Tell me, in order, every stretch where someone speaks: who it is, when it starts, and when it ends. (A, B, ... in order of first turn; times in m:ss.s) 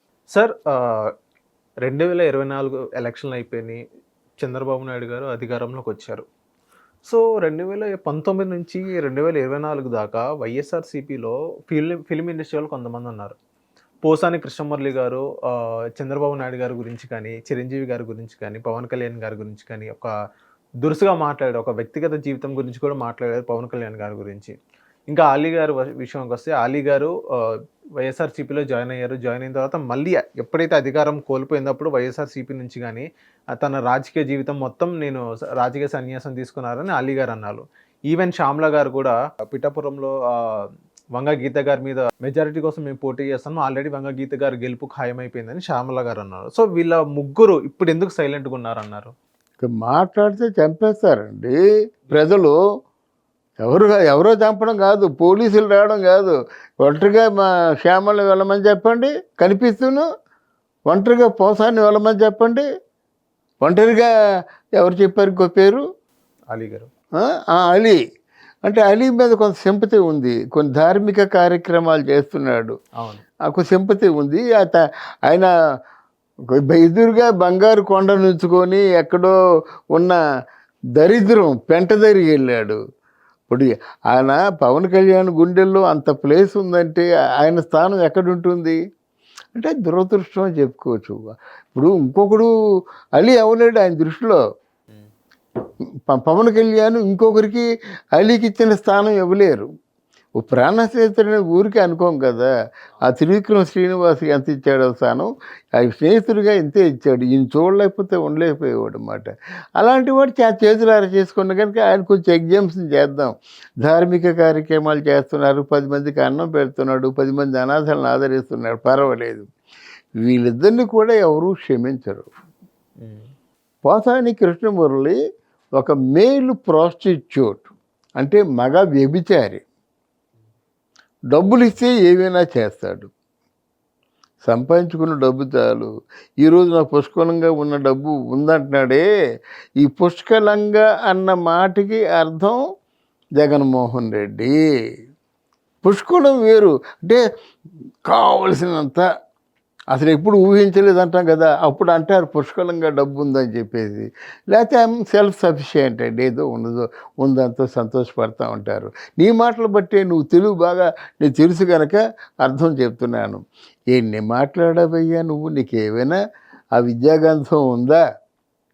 0:00.3-0:01.1 A
0:01.8-0:03.8 A
0:04.4-0:06.2 A
0:07.0-0:13.4 A
0:14.0-0:20.1 A
0:20.8-0:24.5 A
0:25.1-0:27.4 A
0:28.0-0:33.0 A
0:33.6-0:49.1 A
0:49.6-0:51.6 B
0:52.1-0:52.6 B
0:53.6-1:00.0 B
1:00.9-1:02.6 B
1:03.6-1:04.1 B
1:04.8-1:05.8 B
1:06.5-1:06.9 A
1:07.2-1:08.0 B
1:08.6-1:12.7 B
1:13.0-1:13.2 A
1:13.4-1:15.5 B
1:16.5-1:19.3 B
1:21.0-1:22.8 B
1:23.5-1:28.8 B
1:29.5-1:32.5 B
1:33.2-1:34.4 B
1:36.1-1:39.6 B
1:40.4-1:42.5 B
1:43.0-1:59.4 B
2:00.2-2:02.3 B
2:03.0-2:03.3 A
2:03.8-2:05.2 B
2:05.8-2:09.6 B
2:11.3-2:13.1 B
2:14.4-2:15.9 B
2:16.4-2:19.0 B
2:19.8-2:22.6 B
2:23.4-2:24.6 B
2:25.8-2:27.2 B
2:28.0-2:29.0 B
2:29.9-2:46.2 B
2:46.8-2:48.0 B